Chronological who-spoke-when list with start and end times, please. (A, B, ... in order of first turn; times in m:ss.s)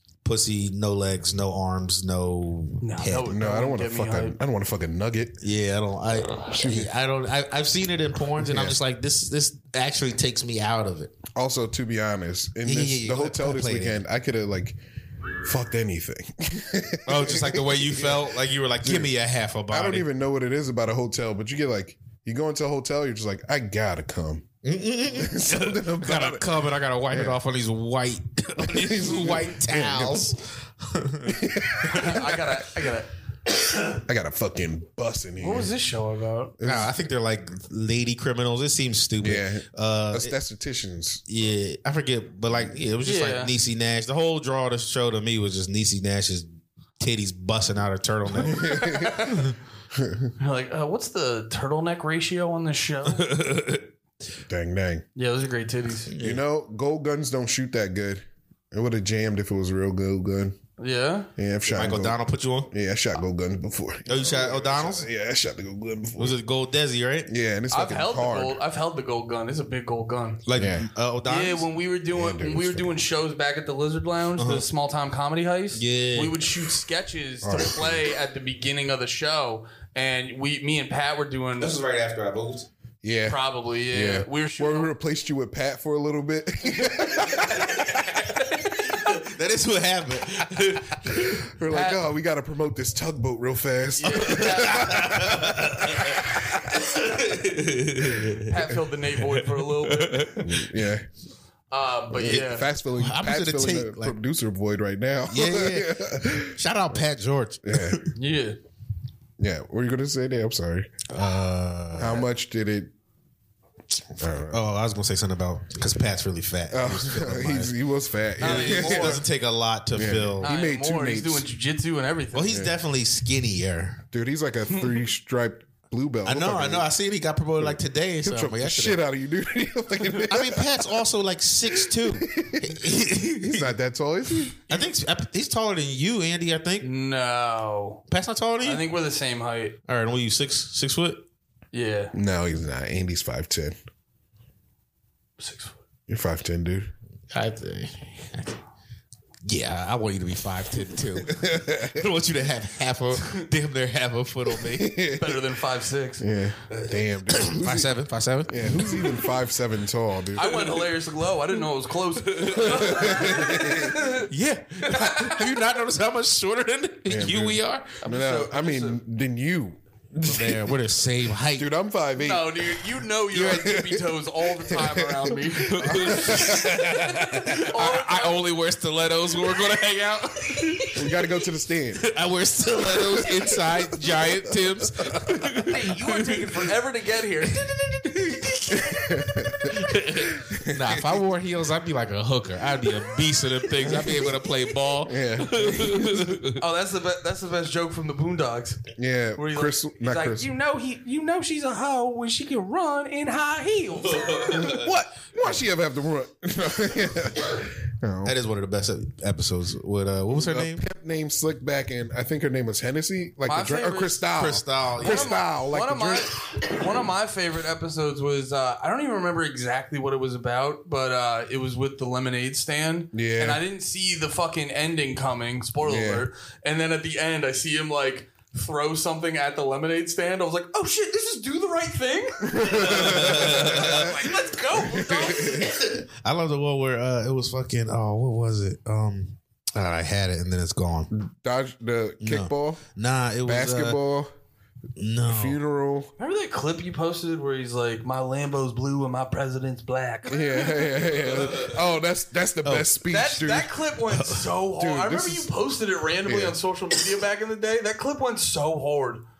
0:00.2-0:03.3 A
0:02.8-0:04.4 B
0:03.3-0:05.4 C
0:05.4-0:11.1 A
0:06.5-0:06.9 C
0:08.4-0:08.8 C
0:11.4-0:14.8 C
0:12.6-0:14.0 A
0:15.4-0:18.2 C
0:17.0-0:20.1 A
0:18.8-0:19.1 C
0:19.7-0:24.5 C
0:24.6-0:32.3 A
0:25.1-0:26.5 C
0:27.1-0:27.4 C
0:28.6-0:30.3 C
0:31.3-0:32.2 C
0:31.9-0:33.1 B
0:34.0-0:35.7 C
0:35.4-0:36.5 B
0:36.6-0:36.9 C
0:36.6-0:40.3 A
0:39.2-0:41.2 C
0:41.3-0:46.5 A
0:43.0-0:43.5 B
0:47.0-0:49.6 A
0:48.4-0:49.1 C
0:48.8-0:49.5 B
0:49.9-0:50.3 C
0:50.4-0:53.3 B
0:53.1-0:53.9 A
0:54.5-0:55.0 C
0:55.2-0:56.1 B
0:56.1-0:56.4 A
0:56.2-1:00.6 C
1:00.8-1:01.3 B
1:01.4-1:02.2 C
1:01.6-1:02.7 A
1:02.7-1:06.4 C
1:04.0-1:05.1 A
1:06.2-1:07.3 A
1:07.3-1:08.6 C
1:07.7-1:10.4 B
1:10.4-1:11.7 A
1:10.5-1:10.9 C
1:11.2-1:21.7 B
1:12.1-1:12.9 C
1:14.4-1:14.6 A
1:15.7-1:16.5 A
1:17.4-1:18.1 C
1:21.6-1:22.7 A
1:23.0-1:23.4 C
1:23.3-1:24.9 B
1:23.9-1:28.0 C
1:27.3-1:31.4 A
1:31.2-1:36.6 C
1:31.7-1:32.0 B
1:34.0-1:35.2 B
1:34.3-1:40.5 A
1:38.4-1:40.4 B
1:40.4-1:41.0 C
1:41.7-1:42.7 B
1:42.1-1:46.6 C
1:42.2-1:44.2 A
1:45.2-1:48.1 A
1:47.6-1:48.0 C
1:48.2-1:48.6 B
1:49.4-1:50.9 C
1:51.1-1:52.2 A
1:52.0-1:52.9 C
1:54.2-1:54.6 C
1:54.5-1:57.7 A
1:56.7-1:59.2 C
1:58.4-2:00.5 A
1:58.4-1:59.2 B
1:59.9-2:01.4 C
2:00.4-2:02.5 B
2:02.3-2:04.0 A
2:04.1-2:06.9 C
2:06.2-2:09.0 A
2:07.6-2:10.6 C
2:10.2-2:13.7 A
2:11.8-2:14.6 C
2:14.5-2:16.9 A
2:16.8-2:18.0 B
2:18.1-2:18.9 A
2:18.6-2:19.8 B
2:19.9-2:21.2 A
2:21.7-2:22.1 B
2:22.1-2:23.7 C
2:25.4-2:25.7 B
2:26.1-2:26.9 C
2:27.3-2:28.6 A
2:29.4-2:35.0 A
2:31.2-2:32.0 C
2:34.7-2:35.4 C
2:35.2-2:36.2 B
2:36.2-2:37.9 C
2:36.7-2:39.2 A
2:38.5-2:40.8 C
2:40.4-2:44.3 B
2:42.2-2:43.7 A
2:42.6-2:44.0 C
2:44.2-2:48.0 A
2:44.9-2:45.5 B
2:47.1-2:50.7 C
2:48.0-2:49.0 B
2:50.2-2:51.7 A
2:51.5-2:52.8 C
2:52.2-2:58.4 B
2:53.3-2:54.0 C
2:54.7-2:57.5 C
2:55.5-3:01.1 A
3:00.9-3:02.0 C
3:02.0-3:06.7 A
3:05.0-3:05.5 C
3:05.6-3:07.6 B
3:07.5-3:16.6 A
3:08.7-3:11.2 C
3:15.0-3:16.2 C
3:16.5-3:18.8 B
3:19.0-3:20.5 C
3:19.4-3:24.9 B
3:24.0-3:24.9 A
3:24.5-3:28.3 C
3:28.2-3:30.8 A
3:30.3-3:36.3 C
3:33.5-3:34.2 B
3:34.3-3:35.3 A
3:35.0-3:55.8 B
3:43.1-3:43.6 C
3:45.8-3:46.2 C
3:52.4-3:54.1 C
3:52.6-3:54.2 A
3:54.9-3:55.5 C
3:55.3-4:01.1 A
4:01.1-4:02.8 C
4:02.2-4:04.0 A
4:03.4-4:04.3 C
4:05.0-4:05.6 A
4:05.3-4:06.1 C
4:06.2-4:11.0 B
4:10.3-4:13.7 C
4:11.4-4:11.7 A
4:12.6-4:13.0 A
4:13.1-4:19.2 B
4:14.1-4:14.5 A
4:14.8-4:15.5 C
4:16.2-4:16.6 C